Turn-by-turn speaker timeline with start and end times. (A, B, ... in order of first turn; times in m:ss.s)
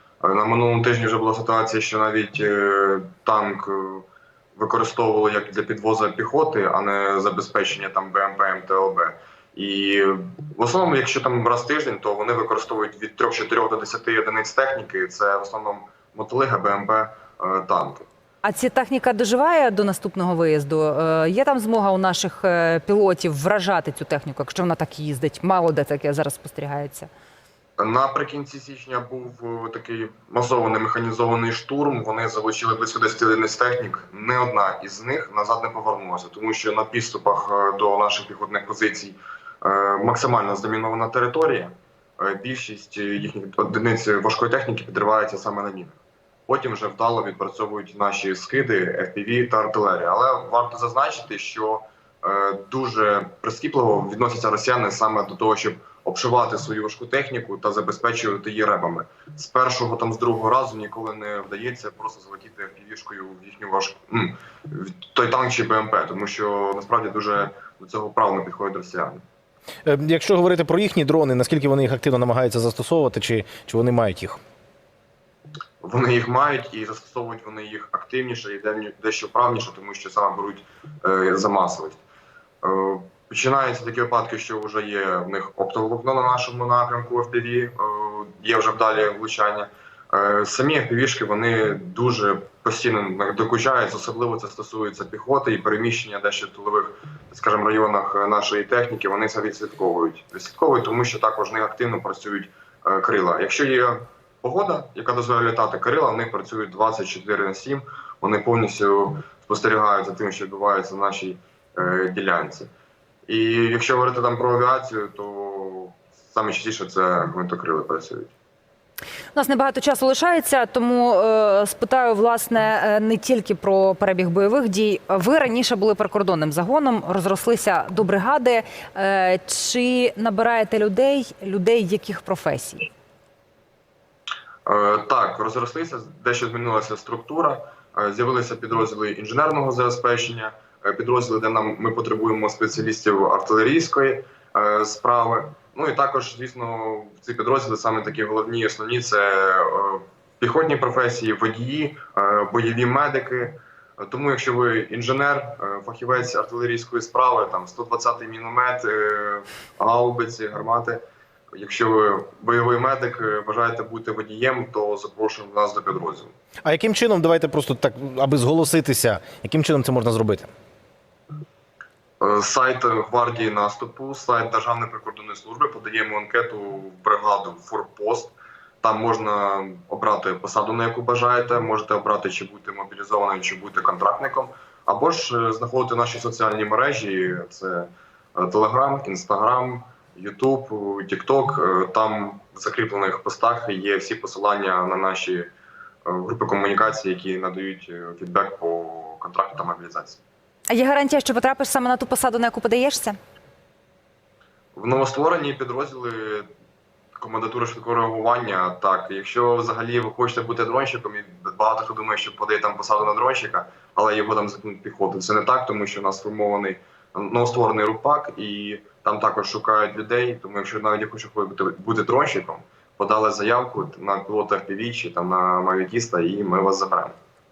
0:00.2-0:18.1 A
0:18.4-0:27.1 B
0:27.8-1:09.2 A
1:09.8-1:14.4 C
1:15.8-1:22.0 A
1:22.6-1:52.7 A
1:53.3-1:58.3 A
1:59.3-2:12.9 B
2:14.6-2:41.0 A
2:41.5-2:46.3 A
2:46.6-2:50.5 C
2:52.2-3:15.5 A
3:16.0-3:20.2 A
3:20.7-3:23.2 B
3:24.7-3:26.5 A
3:27.2-3:47.2 A